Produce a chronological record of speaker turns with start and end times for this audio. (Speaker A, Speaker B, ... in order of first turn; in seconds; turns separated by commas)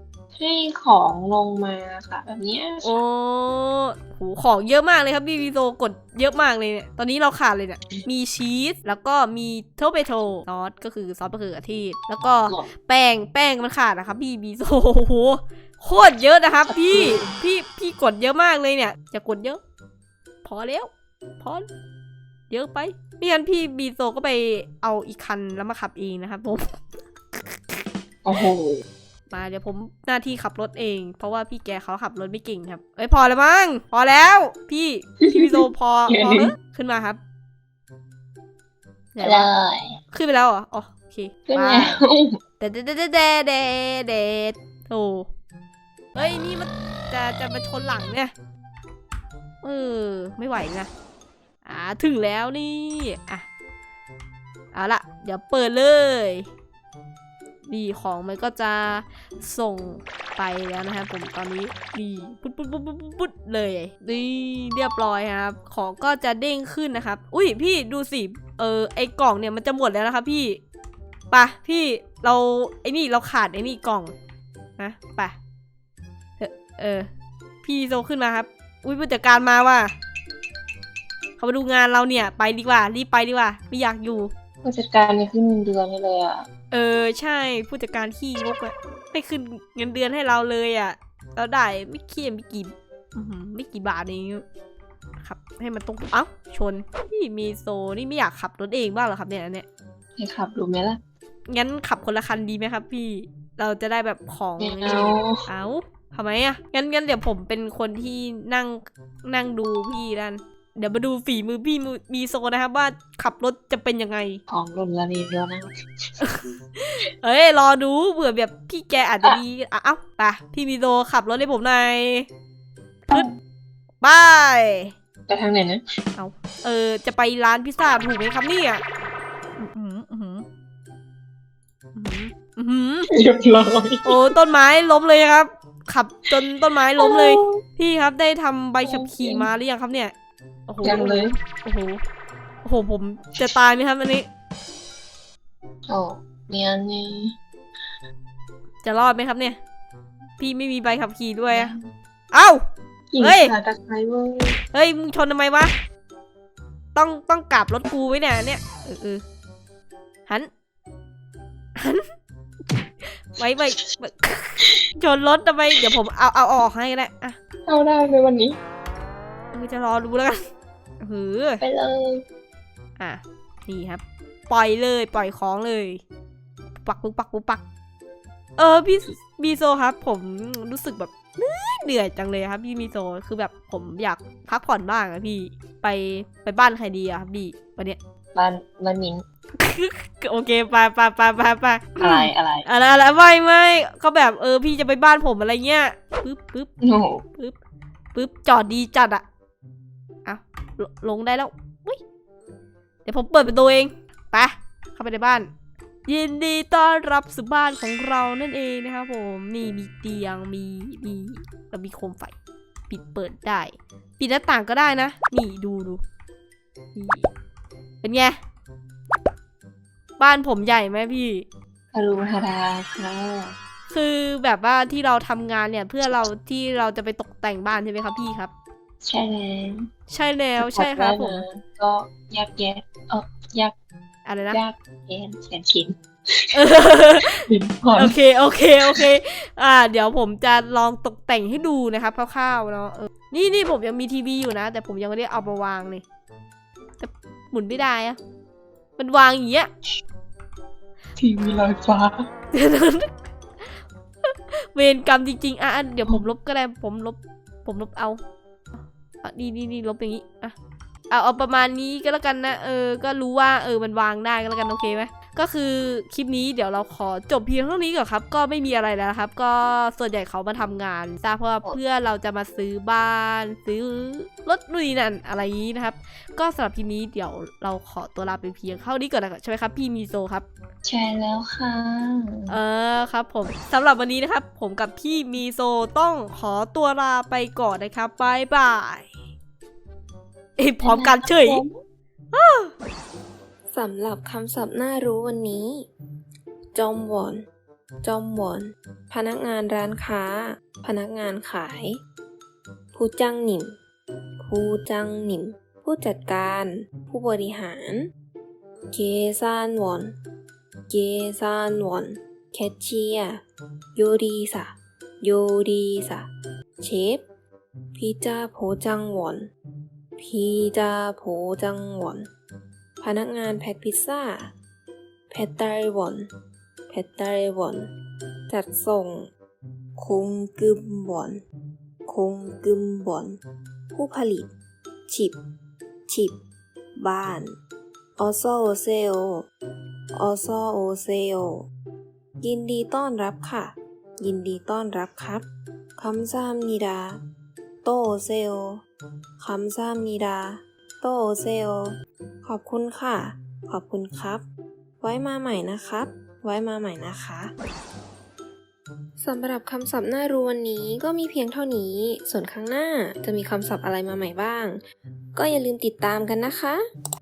Speaker A: 0.3-3.0, Speaker B: 2.8-19.6, Speaker A: 16.7-17.4, Speaker B: 20.4-21.6, Speaker B: 22.5-26.8, Speaker A: 28.2-28.8, Speaker B: 29.3-37.2, Speaker A: 35.2-36.4, Speaker B: 39.1-39.5, Speaker A: 39.2-40.0, Speaker B: 40.1-42.0, Speaker A: 41.5-42.4, Speaker B: 42.6-45.3, Speaker B: 46.1-48.3, Speaker B: 49.6-50.9, Speaker B: 51.6-53.5, Speaker B: 54.7-56.5, Speaker B: 57.6-70.6, Speaker B: 71.3-74.1, Speaker B: 74.8-75.3, Speaker B: 76.4-77.1, Speaker B: 77.6-79.9, Speaker B: 81.4-84.3, Speaker A: 84.6-86.5, Speaker B: 86.7-94.4, Speaker B: 95.2-99.6, Speaker A: 100.2-101.0, Speaker B: 101.5-114.4, Speaker A: 104.6-105.4, Speaker A: 114.5-115.8, Speaker B: 116.2-122.3, Speaker B: 124.0-124.9, Speaker A: 125.3-125.8, Speaker B: 126.2-128.8, Speaker B: 129.6-130.4, Speaker B: 131.9-133.1, Speaker A: 133.1-134.2, Speaker B: 134.0-140.1, Speaker A: 137.0-137.6, Speaker A: 138.8-139.5, Speaker B: 140.7-142.0, Speaker A: 140.8-141.3, Speaker B: 142.6-144.3, Speaker A: 145.9-147.3, Speaker B: 148.8-149.6, Speaker B: 150.4-151.7, Speaker A: 151.5-151.9, Speaker B: 152.3-152.6, Speaker A: 153.1-154.6, Speaker B: 153.2-153.5, Speaker B: 154.7-155.7, Speaker B: 156.9-159.2, Speaker B: 161.8-162.0, Speaker B: 163.2-167.4, Speaker A: 167.7-168.6, Speaker B: 169.5-170.5, Speaker B: 171.0-171.6, Speaker A: 171.6-172.2, Speaker B: 173.0-176.0, Speaker B: 176.8-177.6, Speaker B: 178.6-188.0, Speaker A: 188.3-189.2, Speaker B: 189.6-196.7, Speaker A: 192.0-192.7, Speaker A: 196.8-197.2, Speaker B: 198.1-199.2, Speaker B: 200.2-202.0, Speaker B: 203.0-205.5, Speaker B: 206.1-212.3, Speaker B: 212.9-216.0, Speaker B: 216.9-217.3, Speaker B: 218.0-218.4, Speaker B: 220.2-221.4, Speaker A: 221.9-223.6, Speaker B: 223.9-228.5, Speaker A: 229.0-229.9, Speaker B: 230.1-231.4, Speaker A: 230.6-233.7, Speaker B: 234.2-234.6, Speaker A: 234.5-236.6, Speaker B: 236.5-237.4, Speaker A: 237.3-238.1, Speaker B: 237.9-246.0, Speaker B: 247.0-248.2, Speaker B: 249.0-249.7, Speaker A: 251.2-252.2, Speaker B: 252.5-253.1, Speaker B: 254.2-258.2, Speaker B: 259.2-260.5, Speaker B: 261.1-280.4, Speaker A: 280.8-282.6, Speaker B: 282.5-289.1, Speaker B: 290.6-291.6, Speaker A: 290.8-291.8, Speaker B: 292.3-292.7, Speaker C: 293.7-295.9, Speaker C: 296.7-297.4, Speaker C: 298.0-302.0, Speaker C: 302.9-303.8, Speaker C: 304.4-308.1, Speaker C: 308.9-310.1, Speaker C: 310.9-313.4, Speaker C: 313.9-316.3, Speaker C: 316.8-317.2, Speaker C: 317.9-319.5, Speaker C: 320.2-322.3, Speaker C: 323.0-324.5, Speaker C: 325.3-326.3, Speaker C: 326.9-327.9, Speaker C: 328.5-329.3, Speaker C: 329.9-331.4, Speaker C: 332.1-333.4, Speaker C: 333.9-334.5, Speaker C: 335.1-335.4, Speaker C: 336.1-336.4, Speaker C: 336.9-337.5, Speaker C: 338.2-339.4, Speaker C: 340.1-341.6, Speaker C: 342.4-345.4, Speaker C: 346.0-347.2, Speaker C: 347.8-348.8, Speaker C: 349.4-354.4, Speaker C: 355.0-357.5, Speaker C: 359.2-364.8, Speaker C: 365.3-366.8